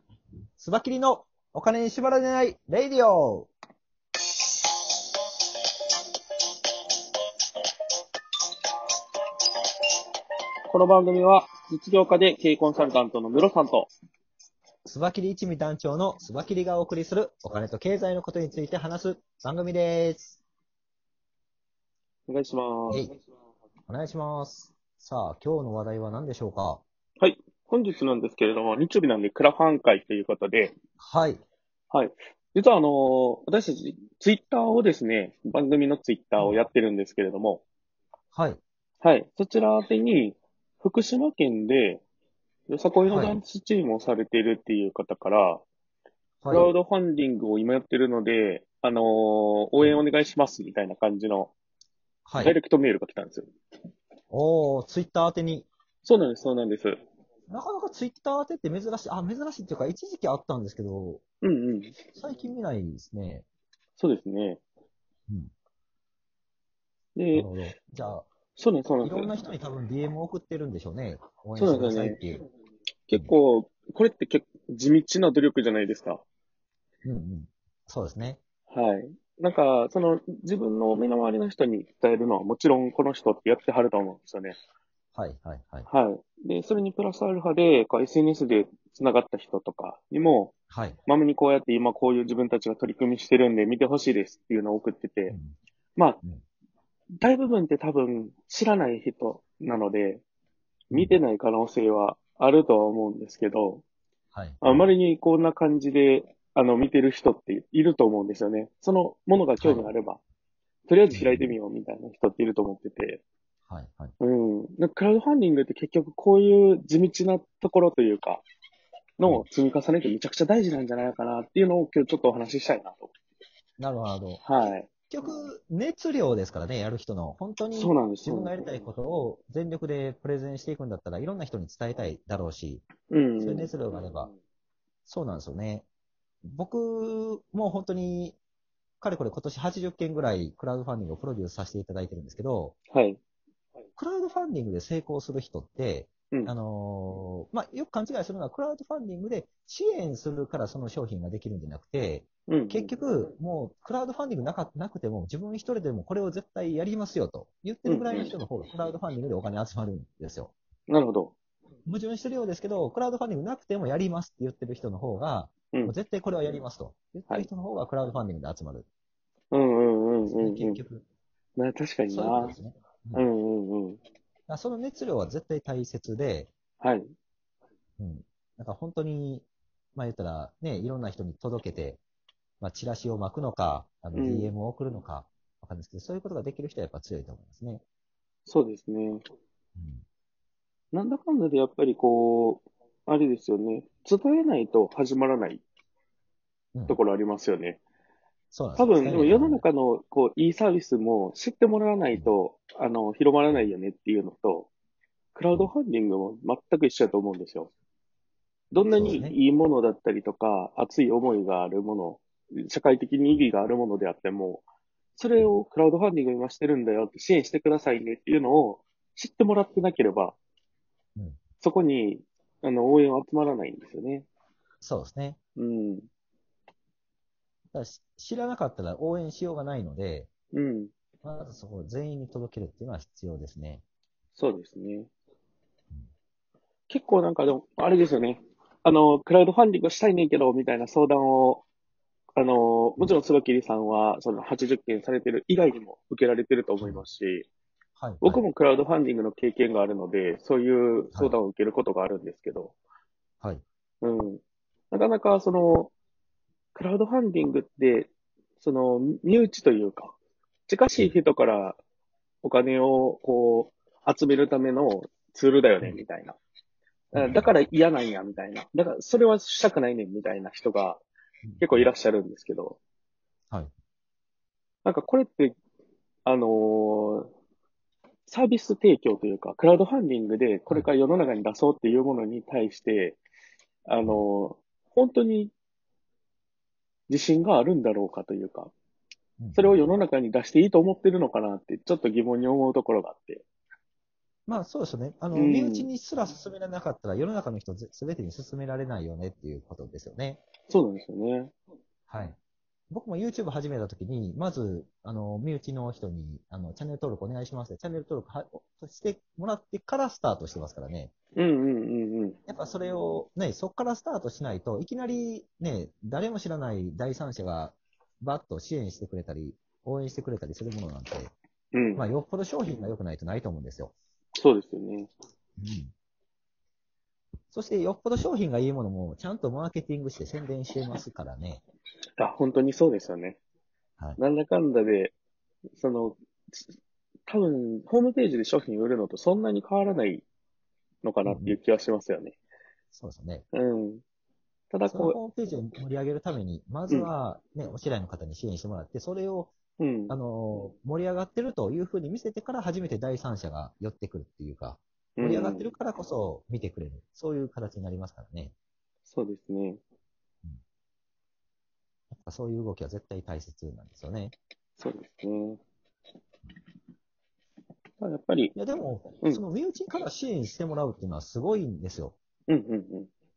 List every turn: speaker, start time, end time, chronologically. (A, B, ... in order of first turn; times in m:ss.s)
0:00.6-0:03.5 A
0:10.7-0:13.9 B
0:14.8-0:20.4 A
0:22.3-0:23.0 B
0:23.9-0:26.8 A
0:27.2-0:30.7 B
0:31.0-0:31.4 A
0:31.9-0:37.6 B
0:36.4-0:36.6 A
0:38.3-0:38.6 A
0:39.0-0:42.0 B
0:42.7-0:45.6 B
0:43.0-0:43.4 A
0:46.4-0:46.7 A
0:46.5-0:51.5 B
0:52.2-0:52.5 A
0:52.4-0:53.5 B
0:54.3-0:55.7 A
0:56.0-0:57.0 B
0:57.5-1:01.2 A
1:01.4-1:01.9 B
1:02.1-1:03.4 A
1:04.0-1:04.6 B
1:07.2-1:07.5 B
1:07.3-1:08.2 A
1:08.6-1:09.3 B
1:09.0-1:12.4 A
1:11.6-1:12.2 B
1:13.1-1:16.2 B
1:17.0-1:18.4 A
1:18.7-1:24.6 B
1:25.2-1:25.9 A
1:25.9-1:30.5 B
1:30.7-1:31.0 A
1:31.1-1:35.3 B
1:35.3-1:35.5 A
1:37.2-1:40.2 B
1:40.9-1:43.8 B
1:44.3-1:44.9 A
1:44.6-1:50.2 B
1:49.6-1:49.9 A
1:50.9-1:53.2 B
1:51.1-1:51.5 A
1:53.7-1:54.1 A
1:54.2-1:58.4 B
1:59.2-2:03.1 B
2:03.8-2:04.4 A
2:04.4-2:04.9 B
2:05.1-2:12.9 A
2:07.7-2:08.6 B
2:13.1-2:13.7 B
2:13.4-2:14.3 A
2:15.0-2:15.8 A
2:16.4-2:18.4 A
2:19.0-2:22.8 A
2:22.9-2:23.2 B
2:24.0-2:40.5 A
2:32.5-2:32.9 B
2:37.8-2:38.3 B
2:40.9-2:41.3 B
2:41.9-2:48.9 A
2:49.5-2:50.8 B
2:50.2-2:51.0 A
2:51.6-2:52.6 B
2:52.1-2:53.3 A
2:53.1-2:54.0 B
2:54.5-2:56.5 A
2:56.8-2:57.1 B
2:58.0-3:02.0 A
3:02.6-3:07.8 A
3:04.1-3:04.5 B
3:08.5-3:09.2 B
3:09.8-3:10.0 A
3:10.9-3:15.6 B
3:16.9-3:17.8 B
3:18.5-3:19.6 A
3:18.8-3:24.7 B
3:25.3-3:27.7 B
3:28.7-3:29.4 A
3:28.7-3:34.6 B
3:35.2-3:40.3 B
3:41.6-3:44.3 B
3:44.8-3:45.4 A
3:45.6-3:46.1 B
3:47.7-3:50.3 A
3:50.5-3:50.9 B
3:51.2-3:53.8 A
3:54.3-3:55.1 B
3:56.9-4:01.6 B
4:02.4-4:07.4 B
4:08.0-4:08.4 A
4:08.2-4:12.7 B
4:14.0-4:15.9 B
4:16.7-4:20.1 B
4:20.7-4:21.8 B
4:22.4-4:26.4 B
4:27.1-4:27.5 A
4:27.1-4:31.0 B
4:31.4-4:31.9 A
4:31.6-4:32.8 B
4:34.8-4:35.6 B
4:36.2-4:37.3 B
4:38.3-4:43.2 B
4:43.9-4:45.5 B
4:47.1-4:48.7 B
4:49.4-4:50.0 A
4:49.5-4:53.4 B
4:54.5-5:00.4 A
4:55.3-4:55.9 B
5:00.7-5:01.5 B
5:02.1-5:02.3 A
5:02.9-5:11.1 A
5:11.4-5:12.4 B
5:12.5-5:21.3 A
5:21.7-5:22.0 B
5:22.0-5:23.9 A
5:24.4-5:25.1 B
5:25.6-5:25.9 A
5:27.5-5:31.6 A
5:32.2-5:33.4 B
5:34.2-5:35.1 B
5:35.7-5:36.6 B
5:37.3-5:40.2 B
5:41.0-5:42.4 B
5:41.2-5:41.6 A
5:42.9-5:43.4 A
5:43.5-5:44.0 B
5:44.7-5:45.2 B
5:44.9-5:49.5 A
5:49.8-5:50.2 B
5:50.1-5:58.5 A
5:55.2-5:55.7 B
5:59.1-5:59.8 B
6:02.1-6:04.3 A
6:04.8-6:05.6 B
6:08.0-6:08.5 B
6:08.6-6:12.2 A
6:12.5-6:13.1 B